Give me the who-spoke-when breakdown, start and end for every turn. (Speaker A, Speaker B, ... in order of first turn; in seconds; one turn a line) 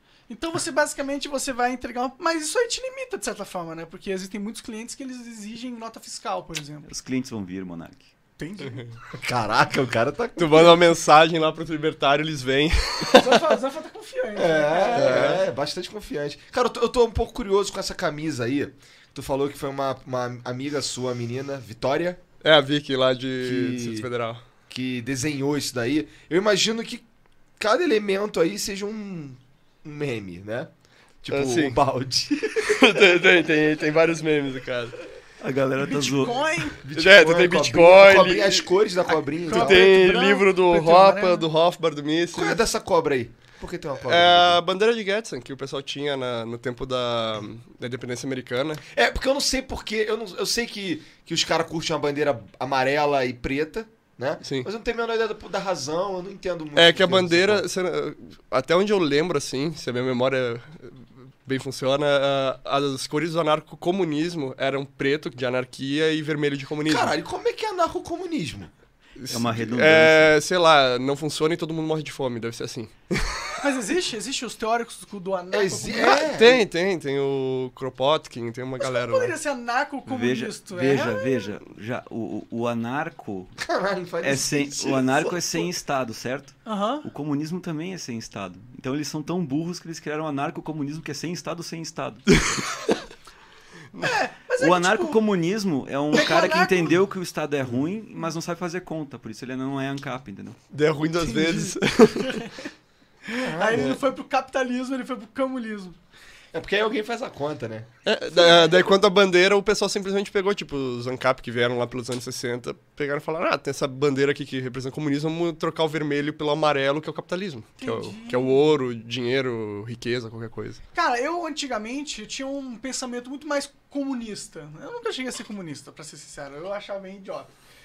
Speaker A: 0.3-6.9
Speaker B: 6.8-8.1
Speaker A: 8.4-8.9
Speaker C: 9.2-10.8
Speaker D: 10.4-13.5
Speaker A: 13.0-15.4
Speaker C: 14.3-22.2
Speaker D: 14.9-15.4
Speaker D: 22.4-24.4
Speaker C: 23.4-24.1
Speaker C: 24.7-27.0
Speaker C: 27.6-30.7
Speaker C: 31.2-33.1
Speaker D: 31.3-31.8
Speaker D: 32.6-35.0
Speaker B: 35.4-36.5
Speaker A: 35.8-36.8
Speaker C: 36.8-39.9
Speaker D: 36.9-38.7
Speaker A: 39.1-41.5
Speaker D: 39.5-42.6
Speaker C: 42.3-44.6
Speaker D: 44.0-48.8
Speaker C: 48.9-57.6
Speaker D: 54.4-54.7
Speaker D: 56.7-67.1
Speaker C: 66.9-68.7
Speaker D: 69.2-73.7
Speaker B: 69.3-70.3
Speaker A: 73.6-76.3
Speaker C: 75.5-76.6
Speaker D: 76.0-79.3
Speaker A: 78.8-81.5
Speaker B: 80.1-83.5
Speaker C: 83.6-85.7
Speaker B: 84.2-92.3
Speaker A: 86.7-87.1
Speaker D: 92.3-93.0
Speaker A: 94.0-95.2
Speaker B: 94.6-100.6
Speaker A: 96.1-97.0
Speaker D: 100.7-102.4
Speaker A: 101.2-102.7
Speaker A: 103.2-106.0
Speaker C: 103.3-104.0
Speaker C: 106.5-107.9
Speaker D: 108.0-120.8
Speaker A: 117.8-118.6
Speaker A: 120.9-127.5